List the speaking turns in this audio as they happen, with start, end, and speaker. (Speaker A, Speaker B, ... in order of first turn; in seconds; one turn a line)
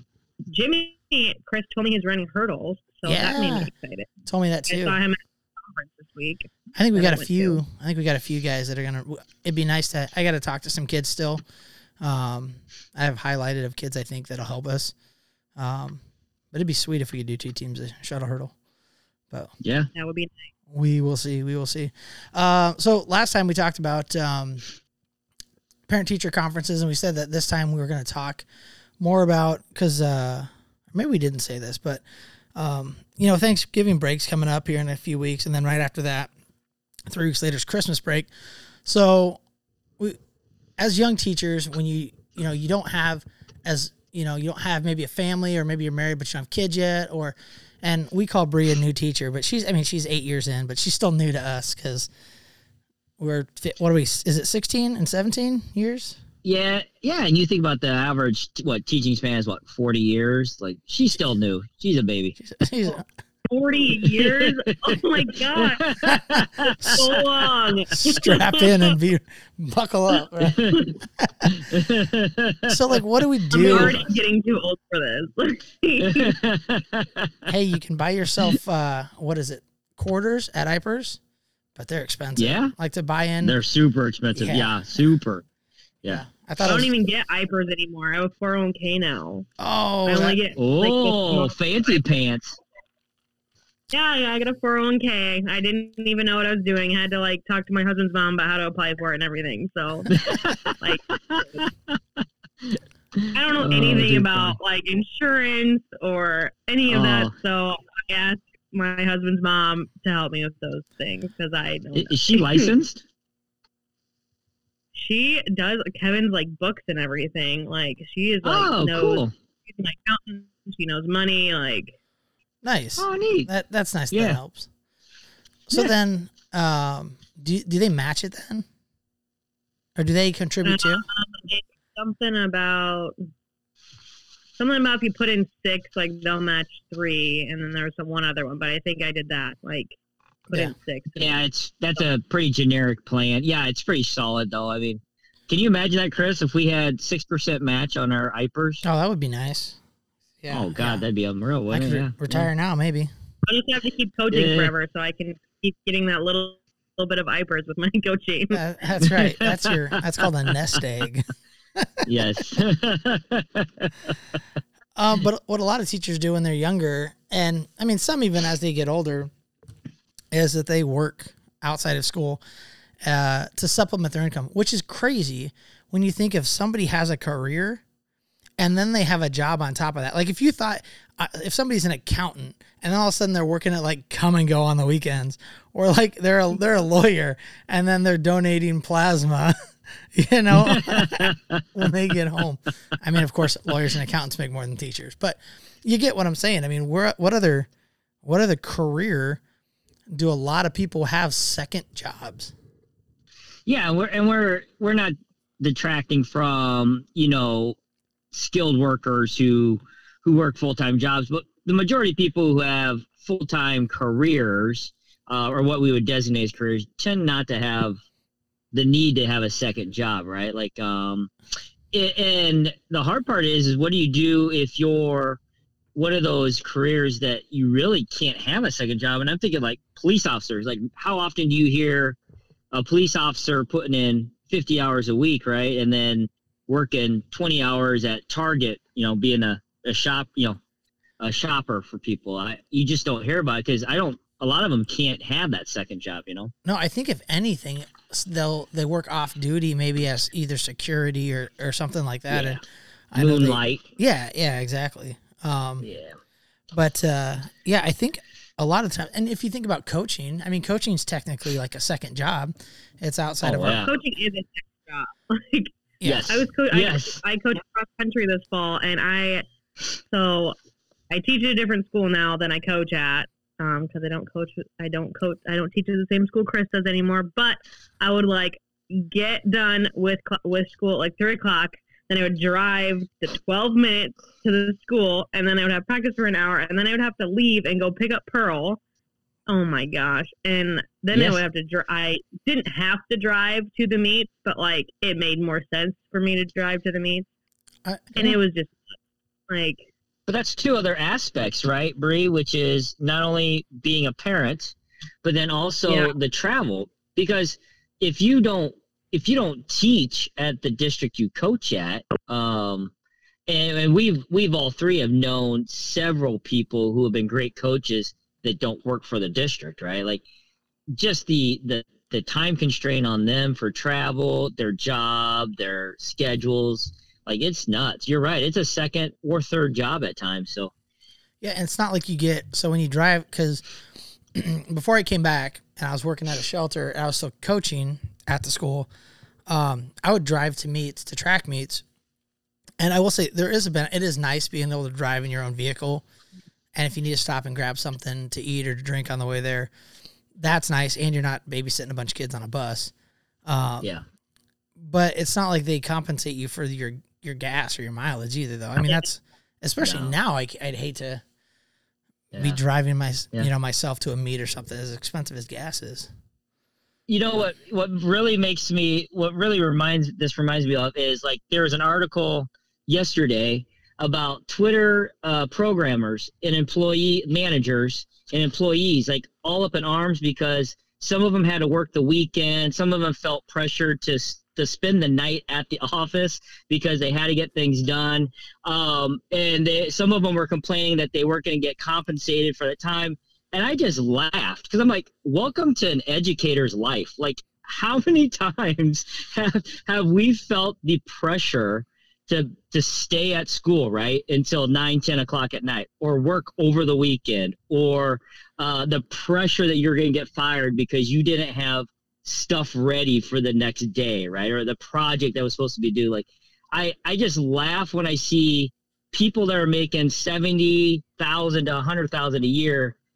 Speaker A: 0.5-4.1
Speaker B: 3.0-3.7
Speaker B: 4.3-5.0
Speaker A: 4.7-7.6
Speaker B: 6.8-11.4
Speaker B: 12.0-14.9
Speaker B: 15.6-16.0
Speaker B: 16.5-18.5
Speaker C: 19.6-19.9
Speaker A: 19.9-20.3
Speaker B: 20.7-24.6
Speaker B: 25.9-28.5
Speaker B: 29.0-32.0
Speaker B: 32.5-36.3
Speaker B: 37.1-38.3
Speaker B: 38.8-39.4
Speaker B: 40.8-52.1
Speaker B: 53.2-56.2
Speaker C: 56.4-62.4
Speaker B: 62.4-63.1
Speaker A: 63.5-65.9
Speaker C: 64.2-65.0
Speaker C: 65.5-67.0
Speaker B: 66.1-67.0
Speaker A: 67.0-68.9
Speaker B: 68.0-71.8
Speaker C: 70.4-70.9
Speaker C: 71.5-72.8
Speaker B: 72.7-74.0
Speaker A: 73.5-76.3
Speaker C: 73.7-74.0
Speaker C: 76.0-77.5
Speaker B: 77.5-81.2
Speaker B: 81.8-83.6
Speaker C: 82.4-82.7
Speaker C: 83.4-85.4
Speaker B: 84.3-85.1
Speaker B: 86.1-86.9
Speaker A: 86.6-89.5
Speaker B: 89.6-90.4
Speaker A: 90.1-91.5
Speaker C: 90.6-92.6
Speaker A: 93.9-100.2
Speaker C: 100.1-102.2
Speaker A: 100.8-101.6
Speaker C: 103.2-104.6
Speaker A: 103.3-112.7
Speaker C: 106.9-107.3
Speaker C: 112.0-113.0
Speaker A: 114.9-122.0
Speaker C: 118.4-119.3
Speaker B: 122.6-124.7
Speaker C: 123.0-123.5
Speaker C: 124.1-124.4
Speaker B: 125.7-128.7
Speaker B: 130.0-131.1
Speaker A: 130.6-133.2
Speaker A: 134.6-140.0
Speaker A: 140.5-141.3
Speaker C: 141.2-148.8
Speaker B: 148.8-149.8
Speaker B: 150.4-151.1
Speaker C: 150.5-152.5
Speaker B: 151.7-153.1
Speaker A: 153.5-158.6
Speaker C: 154.3-154.7
Speaker B: 158.5-161.2
Speaker C: 159.1-159.8
Speaker B: 161.8-162.1
Speaker C: 162.1-164.2
Speaker B: 165.0-169.3
Speaker B: 170.3-172.4
Speaker B: 173.0-177.8
Speaker B: 178.6-197.7
Speaker C: 190.7-191.6
Speaker B: 198.2-199.4
Speaker B: 200.1-202.5
Speaker C: 203.7-207.8
Speaker C: 208.3-218.0
Speaker C: 218.7-221.3
Speaker C: 221.9-225.4
Speaker C: 225.9-232.2
Speaker C: 232.7-240.6
Speaker C: 241.2-246.5
Speaker B: 246.7-252.6
Speaker C: 252.3-252.6
Speaker B: 253.1-255.9
Speaker C: 253.2-253.8
Speaker C: 255.8-256.2
Speaker B: 256.7-263.8
Speaker C: 263.4-263.9
Speaker A: 263.7-265.7
Speaker B: 266.0-266.3
Speaker C: 266.0-267.2
Speaker A: 266.3-269.4
Speaker A: 270.1-270.6
Speaker A: 271.1-288.8
Speaker A: 289.5-297.3
Speaker C: 291.1-291.4
Speaker B: 297.9-298.4
Speaker A: 298.2-299.0
Speaker A: 299.5-299.9
Speaker C: 300.3-312.9
Speaker A: 305.9-306.1
Speaker C: 313.5-320.2
Speaker C: 320.9-330.7
Speaker B: 331.4-333.6
Speaker B: 334.3-338.9
Speaker B: 339.5-341.8
Speaker B: 342.8-346.0
Speaker B: 346.8-349.7
Speaker B: 350.4-352.9
Speaker B: 353.5-353.9
Speaker B: 354.8-361.2
Speaker C: 359.8-360.1
Speaker C: 362.3-362.6
Speaker B: 362.4-366.1
Speaker C: 367.1-423.0